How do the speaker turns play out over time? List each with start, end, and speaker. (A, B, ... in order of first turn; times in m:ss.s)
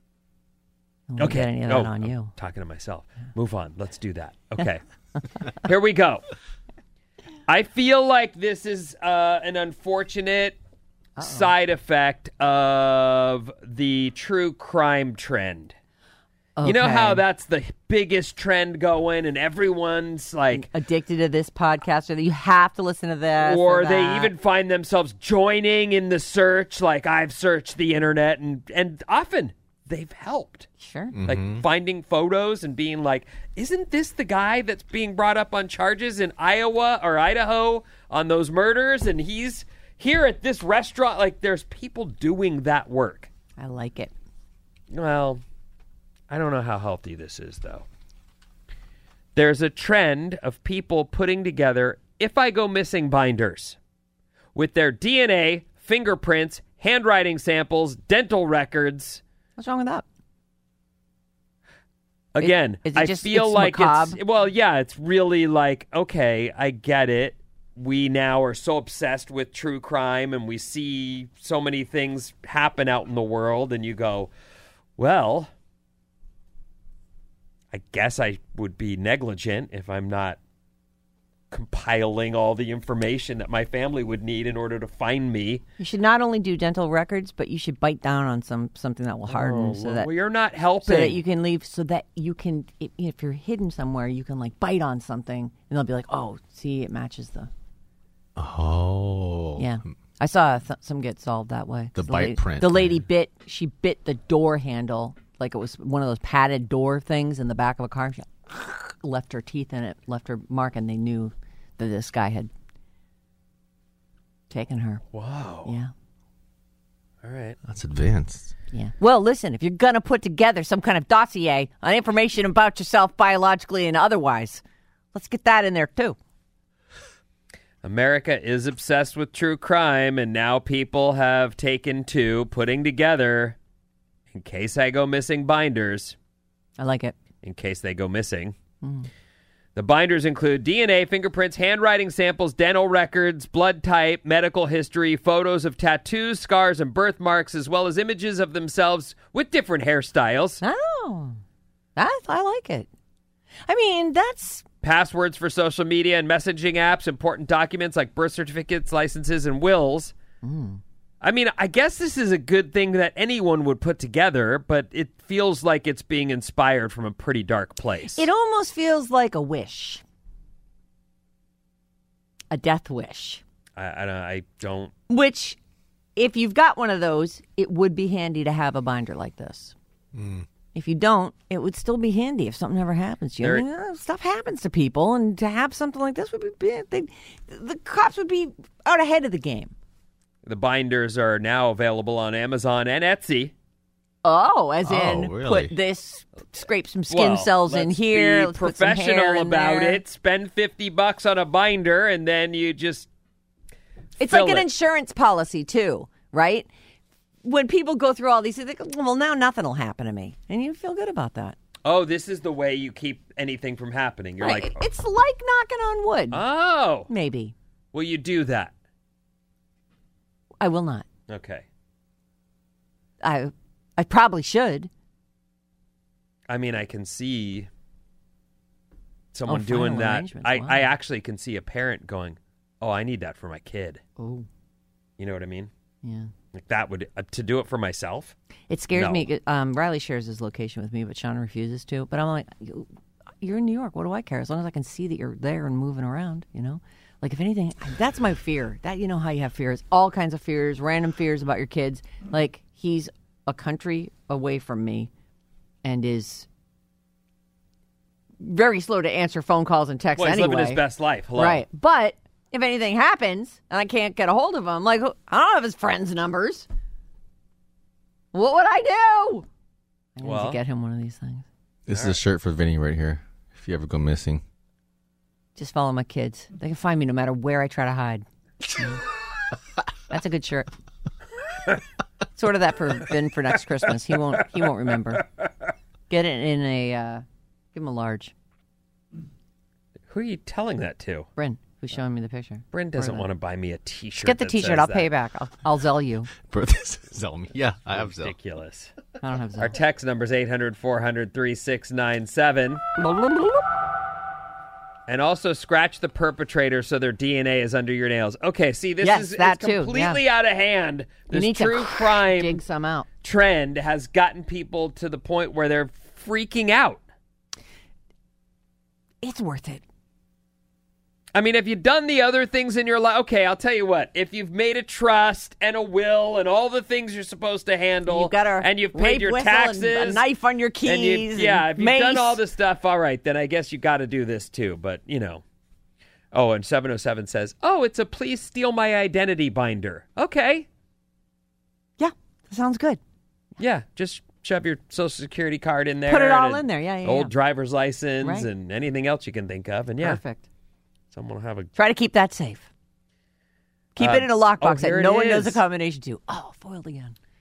0:01.1-0:02.3 A
0:01.2-0:04.8 B
0:05.6-0:06.2 B
0:07.5-0:10.6 B
0:11.2-0:11.5 A
0:11.2-0:15.7 B
0:16.6-0:17.2 A
0:16.6-0:20.7 B
0:20.5-0:24.3 A
0:23.4-0:30.7 B
0:30.8-0:31.1 A
0:31.1-0:31.6 C
0:31.3-0:43.3 B
0:43.6-0:44.1 A
0:44.9-0:45.4 B
0:46.3-0:47.8 B
0:49.3-0:53.8 B
0:54.5-0:59.2 B
0:59.6-1:00.0 A
1:02.3-1:14.3 B
1:02.4-1:04.2 A
1:15.0-1:15.5 B
1:17.7-1:20.4 B
1:21.5-1:25.6 B
1:25.8-1:30.1 A
1:29.3-1:31.2 B
1:30.8-1:37.5 A
1:38.4-1:39.7 C
1:39.6-1:52.5 A
1:41.9-1:43.0 C
1:54.5-1:55.0 A
1:55.1-1:55.7 B
1:55.6-1:55.9 A
1:57.2-1:57.6 B
1:57.7-1:58.5 C
1:58.7-2:06.2 A
2:07.8-2:13.6 B
2:14.3-2:16.2 B
2:16.8-2:17.1 A
2:17.4-2:18.6 B
2:18.8-2:19.1 A
2:19.7-2:30.6 B
2:30.6-2:31.4 A
2:32.0-2:32.9 A
2:33.7-2:34.6 A
2:34.8-2:40.1 B
2:40.4-2:40.8 A
2:41.2-2:48.2 B
2:48.2-2:50.0 A
2:52.5-2:53.4 A
2:53.8-2:54.9 B
2:55.1-2:55.6 A
2:56.2-2:59.7 A
3:00.1-3:00.4 C
3:00.7-3:09.7 A
3:10.4-3:13.5 B
3:14.2-3:20.0 A
3:14.8-3:15.7 C
3:17.1-3:23.1 B
3:24.2-3:26.7 A
3:24.2-3:24.6 B
3:27.4-3:31.6 A
3:31.8-3:34.8 B
3:34.4-3:36.4 A
3:36.3-3:37.1 B
3:37.1-3:37.5 A
3:37.9-3:38.7 B
3:40.6-3:41.0 A
3:41.3-3:41.6 B
3:43.2-3:44.9 A
3:46.5-3:47.7 B
3:49.3-3:54.0 B
3:49.5-3:50.9 A
3:54.2-3:54.5 A
3:55.2-3:55.7 B
3:56.0-3:56.3 A
3:56.5-3:58.3 B
3:58.7-4:02.9 A
3:58.9-3:59.3 B
4:03.4-4:15.1 A
4:15.8-4:16.5 A
4:18.4-4:20.8 A
4:20.2-4:21.6 B
4:21.4-4:26.7 A
4:28.3-4:29.4 A
4:30.2-4:31.4 A
4:30.2-4:30.6 B
4:31.9-4:34.4 C
4:35.6-4:38.2 A
4:40.1-4:40.7 A
4:42.3-4:45.2 A
4:46.1-4:48.3 A
4:50.1-4:51.3 B
4:51.4-4:53.3 A
4:52.7-4:55.1 B
4:54.2-4:56.3 A
4:56.4-4:58.3 C
4:57.9-4:58.9 B
4:59.2-4:59.7 A
4:59.6-5:02.8 B
5:03.0-5:03.6 A
5:05.1-5:12.6 B
5:09.0-5:10.2 A
5:11.3-5:13.0 A
5:13.2-5:17.0 B
5:19.2-5:19.8 A
5:21.3-5:30.2 B
5:28.0-5:32.4 A
5:30.8-5:35.4 B
5:36.3-5:40.6 B
5:42.0-5:43.0 A
5:43.6-5:50.2 B
5:46.1-5:47.3 A
5:48.2-5:48.5 A
5:50.0-5:50.4 A
5:51.1-5:51.7 B
5:51.7-5:52.7 A
5:53.9-5:57.2 A
5:54.0-5:55.6 B